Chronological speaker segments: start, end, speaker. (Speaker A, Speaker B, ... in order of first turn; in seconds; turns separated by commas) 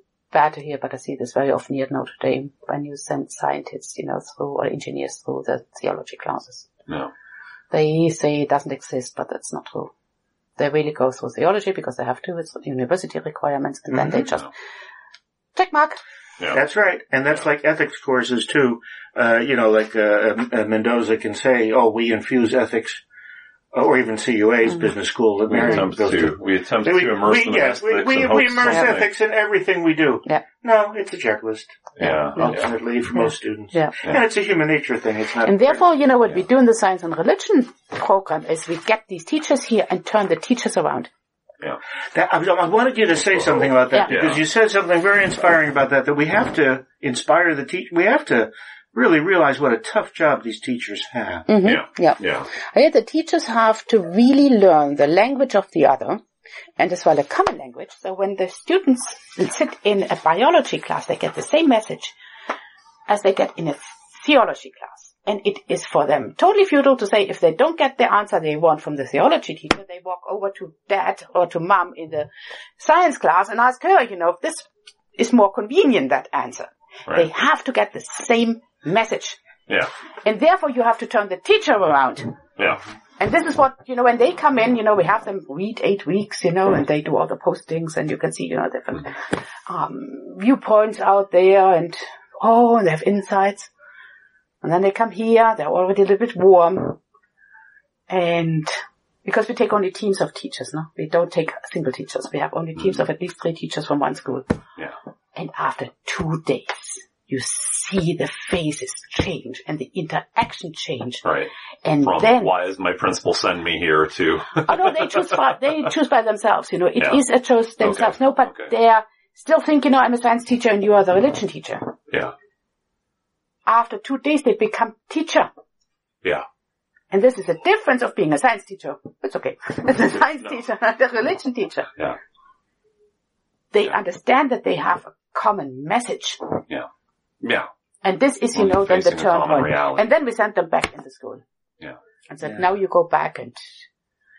Speaker A: 0.3-6.7, Speaker A: 7.7-9.9, Speaker A: 10.6-14.5, Speaker B: 13.9-14.5, Speaker A: 15.6-16.0, Speaker C: 16.5-23.0, Speaker C: 23.7-35.8, Speaker A: 24.7-24.9, Speaker B: 25.5-29.1, Speaker B: 32.0-32.8, Speaker A: 33.1-34.0, Speaker A: 35.4-41.1, Speaker C: 42.1-51.5, Speaker B: 43.2-44.4, Speaker A: 43.9-44.2, Speaker A: 51.5-56.2, Speaker B: 51.6-52.5, Speaker A: 56.8-62.2, Speaker A: 63.1-79.4, Speaker A: 80.2-82.4, Speaker B: 82.6-82.8, Speaker A: 83.2-93.7, Speaker A: 94.6-97.0, Speaker A: 98.1-104.5, Speaker A: 105.3-111.3, Speaker B: 111.2-115.9, Speaker A: 111.8-112.5, Speaker A: 114.7-122.0, Speaker B: 117.0-117.2, Speaker B: 117.8-118.7, Speaker B: 122.1-122.3, Speaker A: 123.7-125.5, Speaker A: 127.1-131.9, Speaker A: 133.7-136.6, Speaker B: 137.4-137.7, Speaker A: 138.0-141.4, Speaker B: 138.5-140.1, Speaker A: 142.3-143.7